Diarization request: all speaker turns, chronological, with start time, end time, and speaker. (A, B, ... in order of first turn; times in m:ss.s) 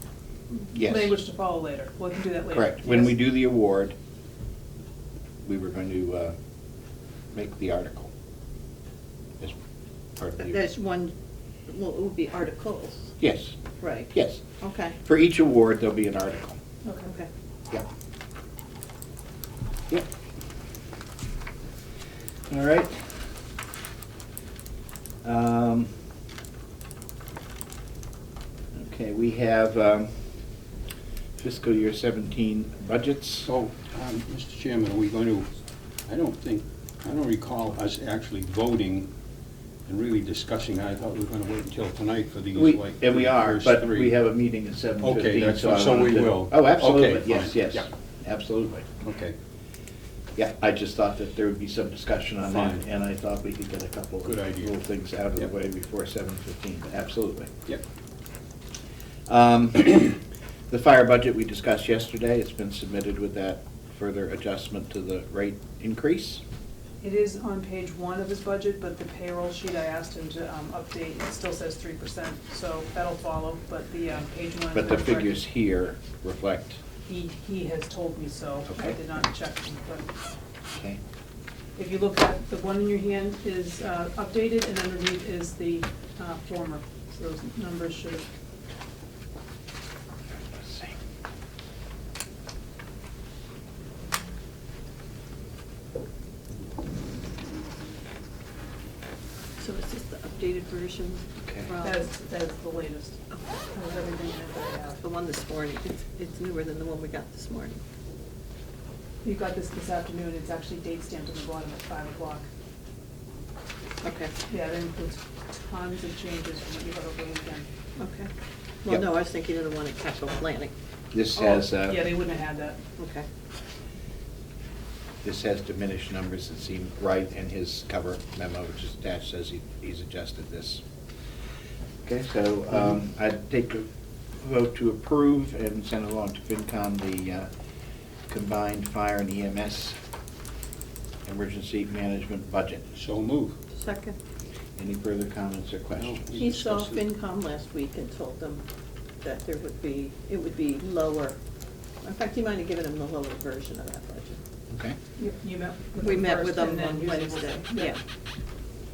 0:00.5-0:03.1 A
0:00.7-0:01.1 B
0:02.5-0:03.9 B
0:05.4-0:06.3 B
0:07.3-0:08.1 B
0:10.2-0:10.6 B
0:10.4-0:11.1 C
0:11.7-0:13.1 C
0:13.2-0:13.6 B
0:13.8-0:15.0 C
0:14.1-0:14.4 B
0:15.0-0:16.6 B
0:16.8-0:17.1 A
0:22.5-0:23.3 B
0:25.2-0:25.9 B
0:28.7-0:30.3 B
0:31.4-0:33.5 B
0:33.4-0:35.5 D
0:36.1-0:39.1 D
0:39.9-0:44.2 D
0:42.5-0:48.9 B
0:45.0-0:47.9 D
0:49.0-0:49.3 D
0:50.4-0:57.5 B
0:52.4-0:52.8 D
0:54.2-0:54.7 D
0:59.3-1:06.4 B
1:07.0-1:15.3 A
1:14.7-1:16.8 B
1:17.0-1:20.1 A
1:18.7-1:19.0 B
1:20.7-1:21.0 B
1:21.8-1:28.3 A
1:30.3-1:31.0 B
1:39.6-1:42.1 C
1:41.4-1:41.7 B
1:41.8-1:43.2 A
1:43.3-1:43.6 C
1:43.7-1:45.0 A
1:45.0-1:47.8 C
1:49.2-1:52.5 A
1:54.0-1:54.3 C
1:54.5-1:57.7 A
1:58.0-1:58.3 C
1:58.8-2:00.7 C
2:01.1-2:02.0 B
2:01.4-2:02.8 A
2:03.0-2:03.3 C
2:05.2-2:10.8 B
2:12.0-2:13.9 B
2:14.4-2:17.5 B
2:18.3-2:20.0 B
2:21.2-2:22.8 B
2:22.9-2:23.6 D
2:23.7-2:24.2 C
2:24.8-2:26.3 B
2:26.0-2:27.0 D
2:26.3-2:28.6 C
2:29.2-2:31.4 C
2:32.0-2:34.4 C
2:34.7-2:35.0 B
2:35.2-2:37.9 A
2:36.0-2:38.0 C